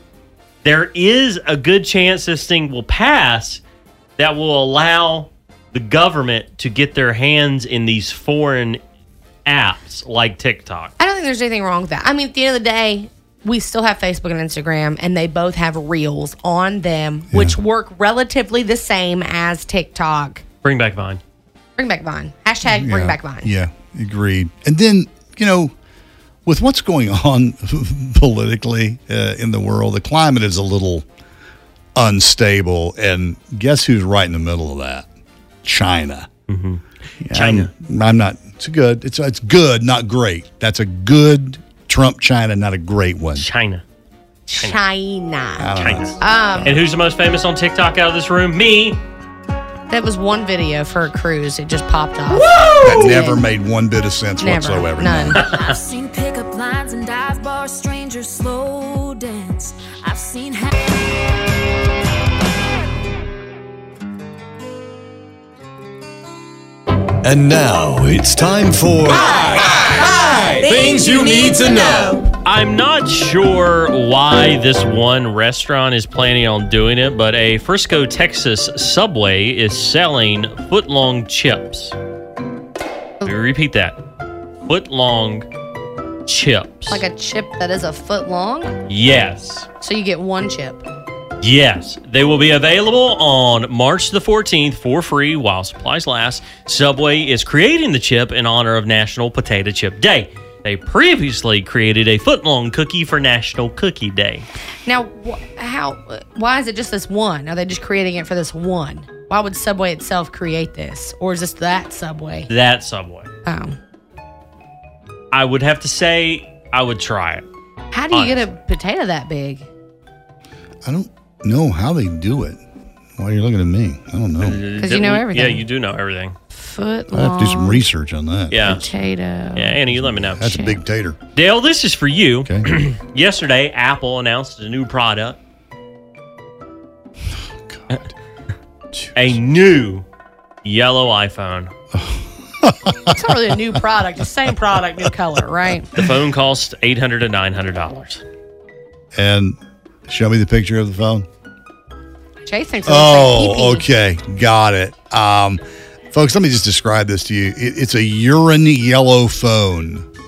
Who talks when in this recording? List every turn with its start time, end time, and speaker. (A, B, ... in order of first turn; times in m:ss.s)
0:00.6-0:03.6 A
0:04.2-0:08.8 A
0:09.4-0:10.9 A
0:11.0-0:20.4 B
0:17.3-0:17.6 C
0:20.6-0:21.2 A
0:21.8-0:23.5 B
0:22.6-0:25.7 C
0:26.4-0:31.0 C
0:32.0-0:35.0 C
0:35.6-0:36.3 C
0:36.5-0:37.7 A
0:37.2-0:43.5 C
0:43.4-0:43.8 A
0:44.5-0:46.8 B
0:45.6-0:46.8 C
0:45.8-0:49.0 A
0:49.9-0:53.4 B
0:52.3-0:52.8 A
0:52.8-0:55.4 C
0:54.4-0:55.4 B
0:55.4-0:55.7 A
0:55.4-1:00.7 D
1:07.3-1:12.2 E
1:10.5-1:12.0 D
1:12.4-1:21.9 A
1:23.2-1:24.0 A
1:24.6-1:25.4 A
1:26.3-1:27.0 A
1:26.9-1:28.8 B
1:28.9-1:29.7 A
1:29.8-1:30.8 B
1:31.4-1:44.4 A
1:44.8-1:52.5 B
1:52.5-1:53.3 A
1:53.4-1:53.8 B
1:55.3-1:57.4 A
1:57.9-1:59.7 B
1:58.1-1:58.5 A
2:00.8-2:02.6 C
2:03.2-2:04.6 C
2:04.4-2:06.3 A
2:04.8-2:05.6 B
2:06.5-2:07.8 B
2:07.1-2:08.9 C
2:08.5-2:08.8 A
2:08.6-2:09.8 B
2:09.5-2:10.5 A
2:09.9-2:11.2 C
2:10.4-2:10.8 B
2:11.3-2:15.4 A
2:12.4-2:12.7 C
2:17.7-2:18.1 C
2:18.9-2:19.4 C
2:19.1-2:20.0 A
2:20.6-2:21.7 A
2:21.9-2:23.5 C
2:23.1-2:25.9 B
2:25.9-2:28.2 A
2:29.1-2:31.2 C
2:32.4-2:33.8 B
2:32.8-2:35.6 C
2:36.1-2:40.1 C